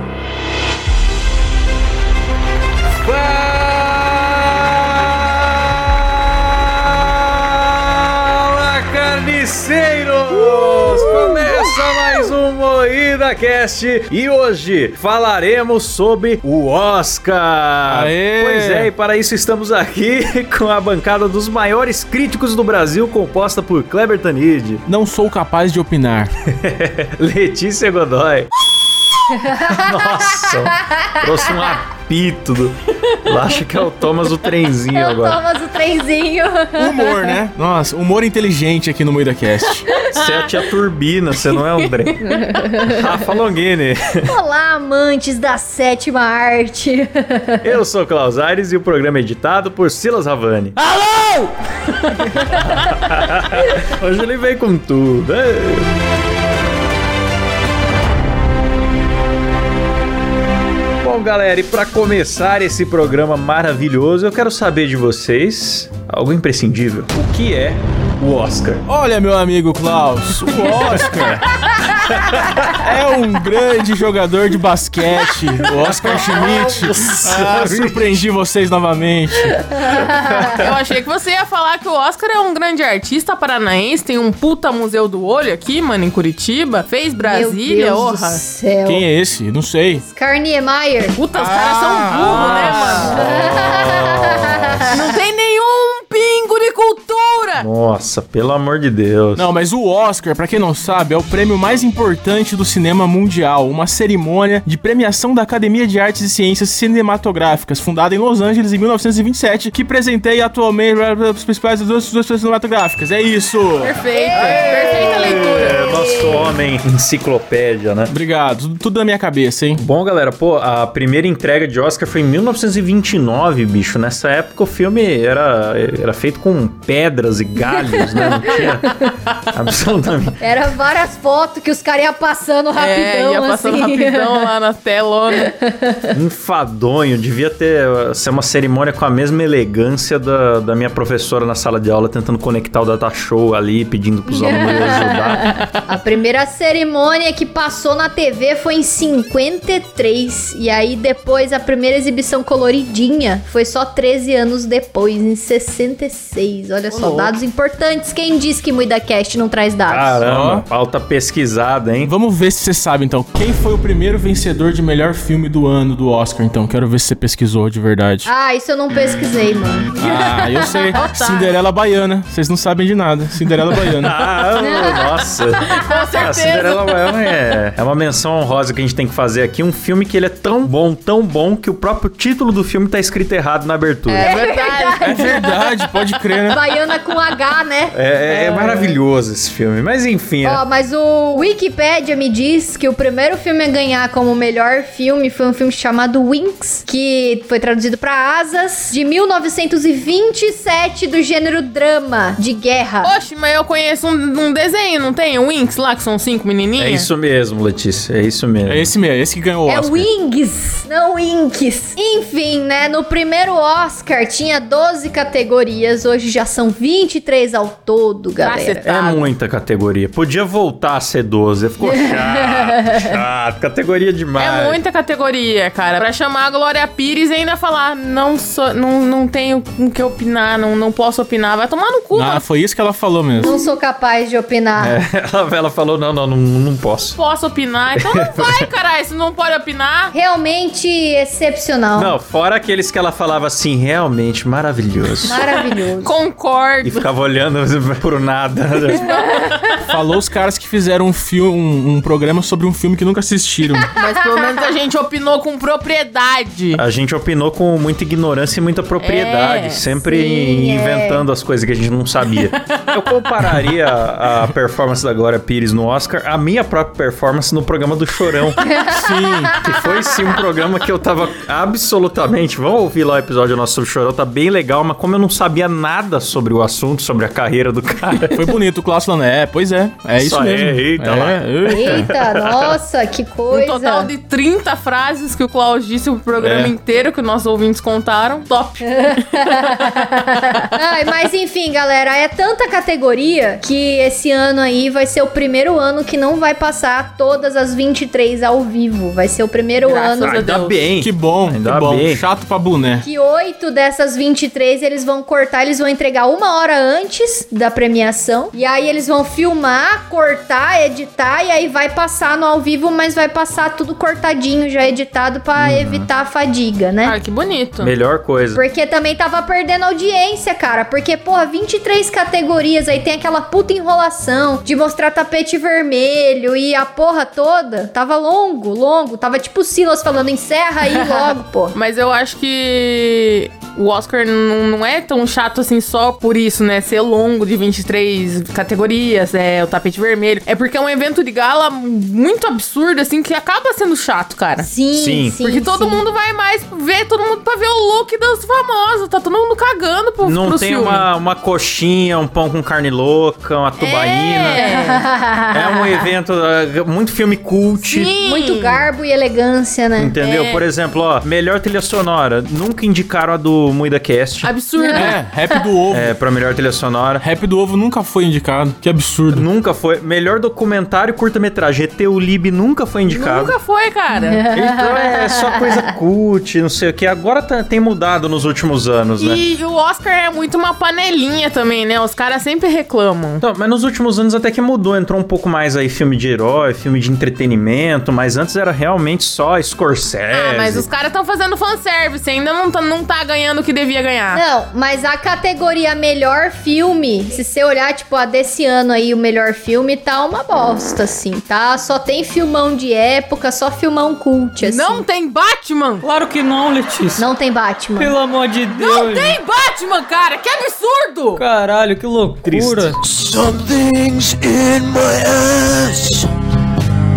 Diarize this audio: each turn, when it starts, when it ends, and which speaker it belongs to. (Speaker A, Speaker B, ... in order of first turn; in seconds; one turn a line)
Speaker A: 3.0-24.8
Speaker B: 10.4-11.4
Speaker B: 17.9-18.9
Speaker B: 24.9-26.3
Speaker A: 26.4-28.5
Speaker A: 29.3-35.4
Speaker C: 29.4-31.4
Speaker C: 34.9-37.4
Speaker B: 36.8-39.9
Speaker D: 40.0-40.5
Speaker A: 40.0-44.3
Speaker D: 41.5-42.1
Speaker C: 42.2-43.0
Speaker C: 44.2-47.7
Speaker A: 47.6-50.8
Speaker A: 52.5-55.9
Speaker A: 61.0-68.8
Speaker B: 68.9-71.7
Speaker A: 72.1-72.8
Speaker B: 72.7-79.7
Speaker A: 75.7-78.2
Speaker C: 79.7-80.6
Speaker A: 80.1-80.7
Speaker D: 80.5-88.4
Speaker C: 87.2-89.0
Speaker B: 88.9-90.0
Speaker C: 89.9-91.2
Speaker D: 91.2-93.2
Speaker B: 91.3-93.2
Speaker A: 92.1-95.0
Speaker C: 93.1-94.9
Speaker D: 94.9-97.7
Speaker A: 97.6-99.5
Speaker B: 99.4-114.0
Speaker D: 113.8-115.8
Speaker C: 114.1-116.3
Speaker A: 114.3-118.1
Speaker B: 118.1-119.8
Speaker A: 119.8-130.4
Speaker C: 127.8-129.1
Speaker C: 130.4-134.5
Speaker D: 132.8-135.5
Speaker C: 135.4-136.1
Speaker A: 136.1-145.6
Speaker C: 144.3-160.2
Speaker D: 156.9-157.4
Speaker A: 159.9-162.1
Speaker B: 160.2-160.7
Speaker B: 162.0-168.3
Speaker C: 168.3-171.0
Speaker B: 170.0-174.2
Speaker D: 170.9-171.6
Speaker A: 173.9-184.3
Speaker C: 174.6-175.1
Speaker C: 175.7-176.0
Speaker D: 175.8-176.9
Speaker D: 184.1-185.9
Speaker C: 184.2-185.5
Speaker B: 185.0-186.6
Speaker C: 186.5-187.9
Speaker A: 187.9-190.6
Speaker D: 188.3-188.9
Speaker C: 190.4-203.1
Speaker D: 203.0-207.1
Speaker A: 206.8-208.9
Speaker B: 208.7-210.1
Speaker C: 209.7-218.8
Speaker D: 218.4-219.3
Speaker A: 218.8-224.8
Speaker C: 221.8-223.1
Speaker D: 224.4-232.4
Speaker B: 232.1-233.5
Speaker C: 233.4-235.0
Speaker A: 234.8-237.2
Speaker D: 237.2-240.1
Speaker A: 237.9-238.7
Speaker C: 240.1-242.2
Speaker A: 241.9-245.4
Speaker D: 245.2-247.1
Speaker C: 245.3-246.2
Speaker A: 246.8-249.2
Speaker D: 248.9-249.9
Speaker B: 249.9-253.9
Speaker D: 253.9-256.8
Speaker C: 254.1-254.5
Speaker A: 256.8-268.8
Speaker D: 259.0-259.9
Speaker C: 260.0-261.2
Speaker D: 262.4-262.8
Speaker C: 268.6-269.6
Speaker B: 268.9-269.6
Speaker A: 269.6-278.5
Speaker B: 278.3-282.1
Speaker A: 280.2-282.8
Speaker C: 281.7-284.1
Speaker D: 283.5-290.1
Speaker A: 286.4-286.7
Speaker C: 288.8-300.4
Speaker D: 299.8-300.8
Speaker A: 300.2-302.2
Speaker B: 301.0-303.1
Speaker C: 303.0-317.2
Speaker A: 315.6-316.1
Speaker D: 317.0-317.9
Speaker A: 317.8-318.6
Speaker C: 318.6-331.8
Speaker D: 330.9-344.7
Speaker C: 344.6-346.0
Speaker A: 344.9-345.4
Speaker D: 345.4-351.1
Speaker A: 350.2-354.6
Speaker D: 353.8-355.1
Speaker C: 354.5-355.9
Speaker A: 355.5-358.1
Speaker D: 357.8-358.9
Speaker C: 358.2-360.2
Speaker A: 360.0-364.5
Speaker D: 360.2-360.6
Speaker D: 364.4-365.2
Speaker C: 364.8-365.7
Speaker B: 364.9-366.1
Speaker A: 365.9-367.2
Speaker B: 367.2-369.5
Speaker A: 369.3-373.6
Speaker D: 373.1-374.5
Speaker C: 374.1-375.8
Speaker A: 374.5-379.4
Speaker D: 379.2-383.4
Speaker A: 383.4-390.9
Speaker D: 390.3-394.4
Speaker C: 394.3-405.1
Speaker D: 404.6-406.1
Speaker E: 406.0-407.3
Speaker C: 407.2-408.1
Speaker E: 408.0-409.4
Speaker D: 408.7-411.4
Speaker E: 411.4-413.0
Speaker A: 412.4-412.9
Speaker F: 413.0-416.3